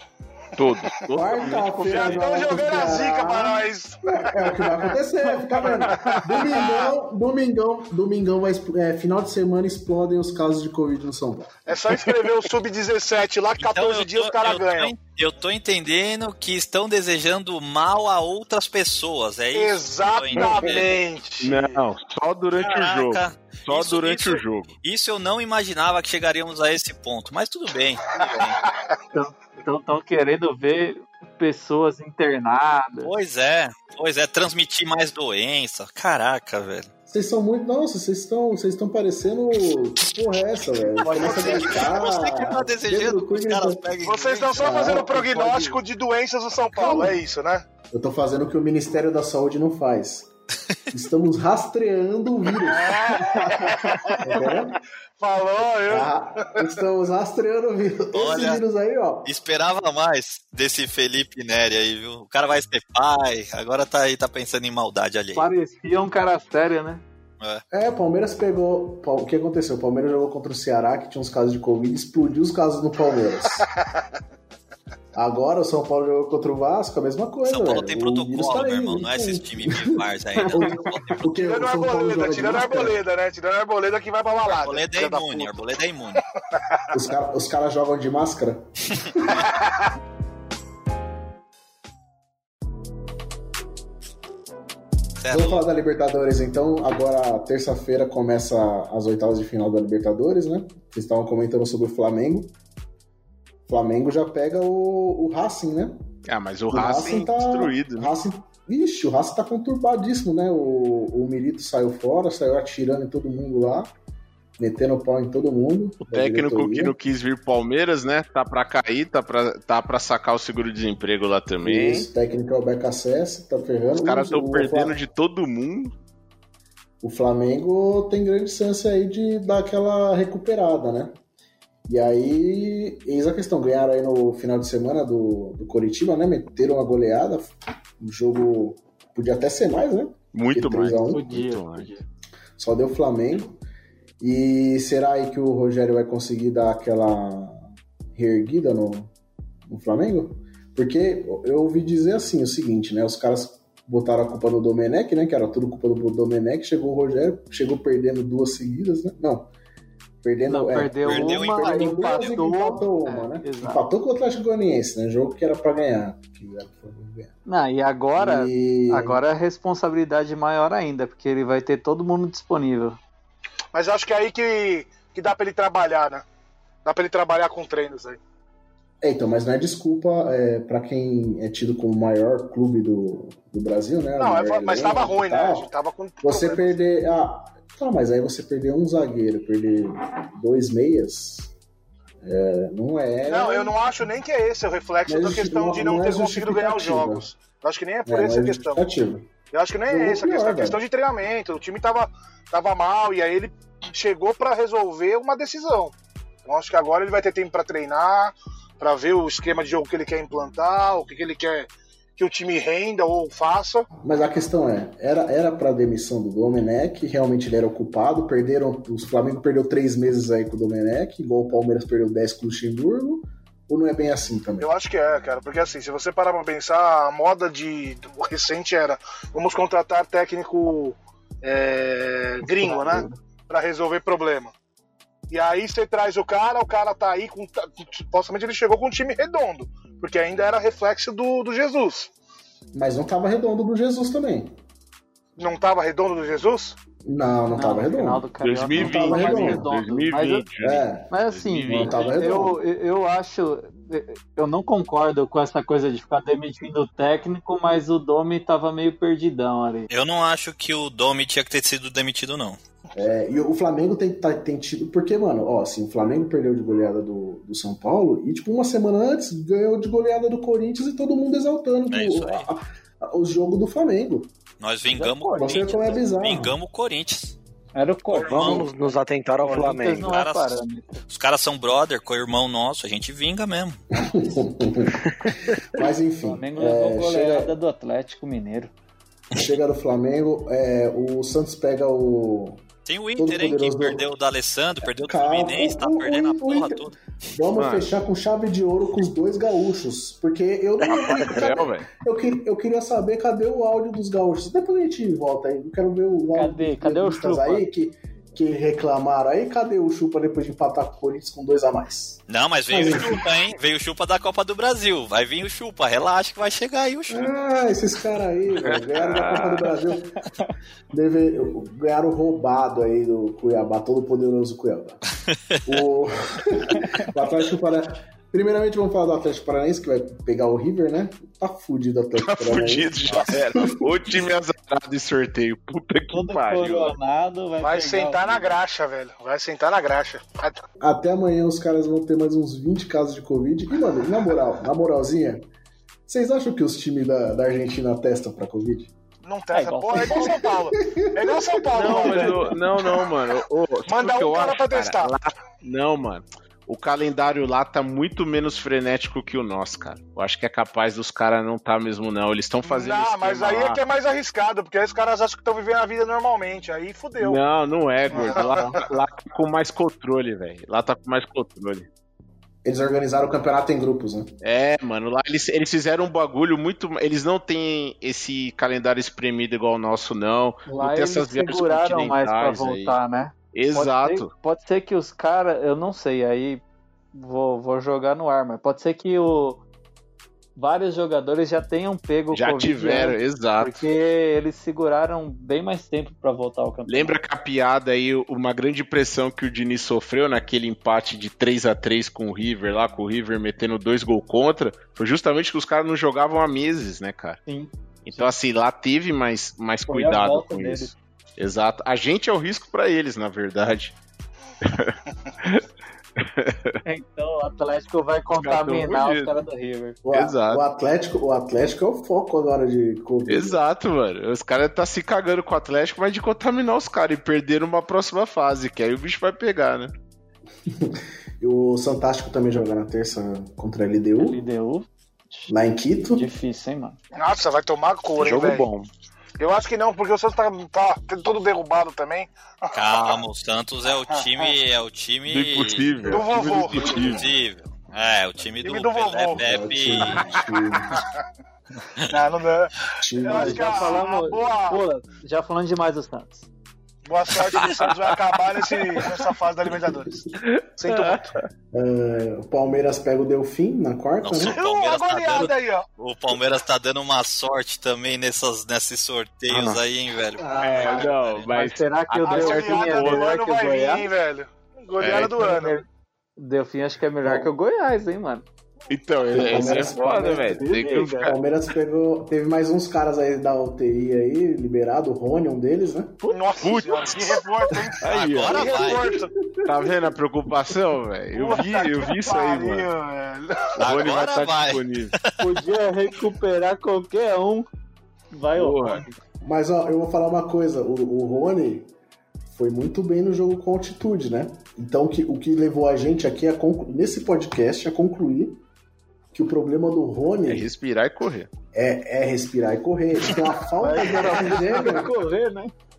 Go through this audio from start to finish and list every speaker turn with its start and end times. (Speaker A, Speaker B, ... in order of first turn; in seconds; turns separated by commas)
Speaker A: 0.6-2.2, Speaker B: 1.1-11.8, Speaker C: 1.8-4.9, Speaker C: 5.5-6.9, Speaker C: 11.7-14.9, Speaker D: 13.6-20.9, Speaker C: 19.5-21.8, Speaker A: 21.4-24.7, Speaker D: 22.6-28.6, Speaker E: 29.1-33.1, Speaker D: 33.0-36.9, Speaker B: 37.1-43.8, Speaker E: 41.0-41.7, Speaker D: 41.1-45.0, Speaker C: 44.0-47.6, Speaker B: 44.5-45.8, Speaker B: 46.7-47.2, Speaker B: 47.9-50.3, Speaker B: 50.9-53.7, Speaker C: 52.6-54.3, Speaker B: 54.2-54.8, Speaker C: 55.2-56.7, Speaker B: 55.9-59.3, Speaker D: 58.1-58.6, Speaker D: 59.2-65.5, Speaker E: 65.3-67.0, Speaker B: 67.7-73.7, Speaker B: 75.1-83.0, Speaker D: 77.4-81.3, Speaker C: 81.4-85.6, Speaker D: 84.5-86.2, Speaker B: 86.9-88.7, Speaker D: 95.2-95.6, Speaker B: 95.3-102.5, Speaker B: 103.7-106.1, Speaker A: 106.3-108.1, Speaker B: 106.7-113.9, Speaker B: 114.6-117.0, Speaker A: 116.0-122.1, Speaker B: 121.6-125.0, Speaker A: 123.9-125.9, Speaker B: 127.0-131.2, Speaker B: 131.9-141.2, Speaker A: 140.3-141.9, Speaker E: 141.1-142.0, Speaker B: 142.6-143.6, Speaker B: 144.2-149.1, Speaker B: 149.7-159.5, Speaker B: 160.2-167.3, Speaker E: 160.5-163.8, Speaker D: 161.0-162.4, Speaker E: 167.4-173.0, Speaker B: 168.2-169.2, Speaker C: 173.7-176.2, Speaker C: 176.8-178.2, Speaker B: 179.0-185.7, Speaker C: 184.2-186.8, Speaker B: 186.2-191.5, Speaker B: 192.2-193.8, Speaker C: 193.2-198.8, Speaker B: 195.1-197.4, Speaker B: 198.0-199.3, Speaker C: 199.5-213.9, Speaker B: 199.9-200.8, Speaker B: 214.0-224.7, Speaker C: 224.6-234.5, Speaker B: 232.6-233.1, Speaker C: 235.3-242.1, Speaker B: 242.7-244.5, Speaker C: 245.4-246.8, Speaker B: 247.0-249.7, Speaker E: 247.5-250.4, Speaker A: 248.4-252.1, Speaker B: 250.6-251.1, Speaker E: 251.1-259.9, Speaker B: 251.7-252.6, Speaker D: 259.9-262.6, Speaker B: 262.9-274.3, Speaker D: 271.9-272.5, Speaker D: 274.6-277.4, Speaker B: 275.0-276.5, Speaker E: 277.7-278.6, Speaker D: 278.1-278.7, Speaker F: 278.2-280.2, Speaker E: 279.4-281.0, Speaker D: 280.1-283.8, Speaker B: 284.0-285.0, Speaker B: 285.7-287.5, Speaker E: 286.2-288.7, Speaker B: 289.3-292.6, Speaker D: 292.9-297.0, Speaker B: 293.2-294.2, Speaker B: 295.0-313.3, Speaker A: 297.6-297.9, Speaker A: 301.3-301.9, Speaker E: 306.3-307.6, Speaker D: 312.3-317.3, Speaker B: 317.1-320.2, Speaker A: 319.0-319.7, Speaker B: 320.9-325.0, Speaker B: 325.6-333.8, Speaker A: 332.2-336.9, Speaker E: 336.1-338.6, Speaker C: 337.6-340.6, Speaker B: 340.8-345.4, Speaker B: 346.1-348.9, Speaker C: 349.2-352.5, Speaker E: 349.5-350.4, Speaker B: 350.0-351.5, Speaker A: 351.7-363.8, Speaker E: 351.8-352.2, Speaker B: 352.5-352.9, Speaker C: 353.9-355.1, Speaker C: 362.6-367.4, Speaker A: 367.2-371.9, Speaker C: 368.1-368.9, Speaker B: 372.6-374.3, Speaker A: 374.4-383.0, Speaker E: 380.6-386.6, Speaker A: 383.5-384.3, Speaker E: 387.1-389.6, Speaker E: 390.6-397.1, Speaker A: 392.3-393.8, Speaker A: 396.9-407.4, Speaker E: 407.5-408.3, Speaker A: 408.1-413.9, Speaker E: 409.9-410.9, Speaker A: 414.6-415.6, Speaker A: 416.2-416.7, Speaker E: 416.8-420.0, Speaker A: 418.4-419.4, Speaker B: 420.0-423.6, Speaker A: 420.1-420.6, Speaker A: 423.3-429.9, Speaker B: 430.6-434.4, Speaker E: 434.2-435.5, Speaker B: 435.5-436.2, Speaker E: 436.1-437.0, Speaker C: 437.1-438.6, Speaker F: 438.2-438.8, Speaker C: 439.4-443.2, Speaker D: 442.7-446.3, Speaker C: 444.1-444.5, Speaker A: 445.3-447.3, Speaker C: 446.0-447.1, Speaker D: 446.9-450.3, Speaker C: 448.6-449.4, Speaker B: 449.4-451.0, Speaker C: 452.1-454.8, Speaker B: 453.0-454.0, Speaker E: 453.3-456.5, Speaker C: 457.1-461.3, Speaker A: 460.4-461.4, Speaker B: 461.7-464.6, Speaker D: 464.2-471.5, Speaker C: 464.4-465.9, Speaker A: 469.5-469.8, Speaker C: 470.5-470.9, Speaker A: 470.6-473.3, Speaker E: 471.5-474.1, Speaker C: 472.2-475.8, Speaker A: 475.0-475.4, Speaker E: 475.3-475.9, Speaker E: 476.4-478.4, Speaker A: 478.9-481.4, Speaker B: 479.3-480.6, Speaker E: 479.6-481.3, Speaker B: 481.2-486.2, Speaker C: 486.3-489.3, Speaker A: 486.6-487.4, Speaker A: 488.0-488.7, Speaker D: 488.1-489.2, Speaker B: 489.6-489.9, Speaker A: 489.6-492.9, Speaker C: 491.3-493.9, Speaker A: 493.8-495.1, Speaker D: 493.8-495.4, Speaker E: 495.4-497.7, Speaker E: 498.3-499.1, Speaker A: 498.5-499.1, Speaker B: 499.4-501.9, Speaker B: 502.5-508.6, Speaker B: 509.3-510.7, Speaker A: 510.5-511.5, Speaker B: 511.7-515.1, Speaker E: 513.8-515.7